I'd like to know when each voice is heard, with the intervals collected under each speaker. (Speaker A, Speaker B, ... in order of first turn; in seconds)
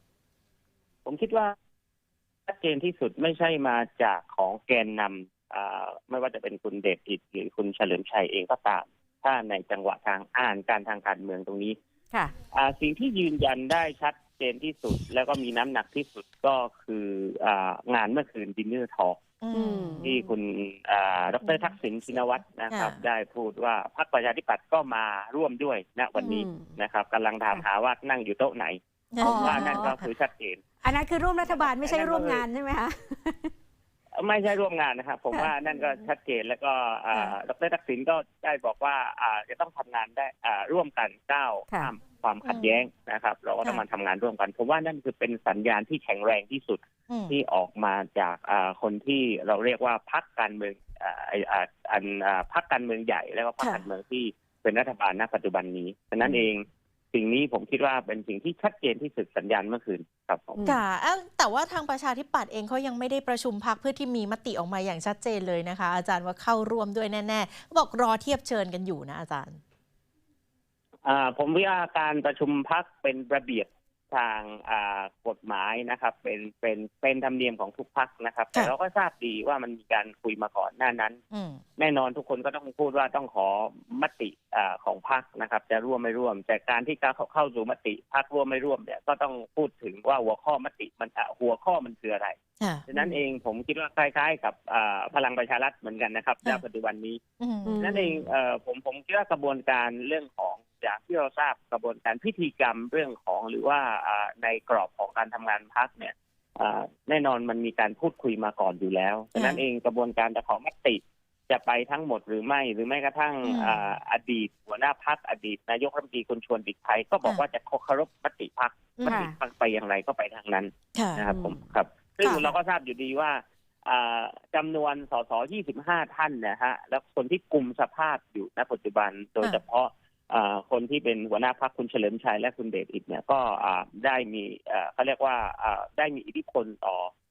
Speaker A: 1.1-1.5, 2.5-11.8, 12.5-19.2, 20.0-30.7, 31.5-32.5, 34.2-60.7, 71.0-81.2, 81.8-97.2, 97.8-137.1
Speaker B: 19.4-20.1, 22.7-23.0, 29.1-30.1, 42.5-42.8, 47.1-47.3, 53.6-53.9, 60.6-69.6, 81.3-81.6, 92.6-93.1, 97.4-98.3, 109.3-109.6, 113.5-113.8, 121.0-121.2, 122.2-122.5
Speaker C: 19.5-20.3, 26.2-26.8, 29.2-29.9, 30.8-33.5, 97.7-98.0, 119.1-119.4, 121.3-121.6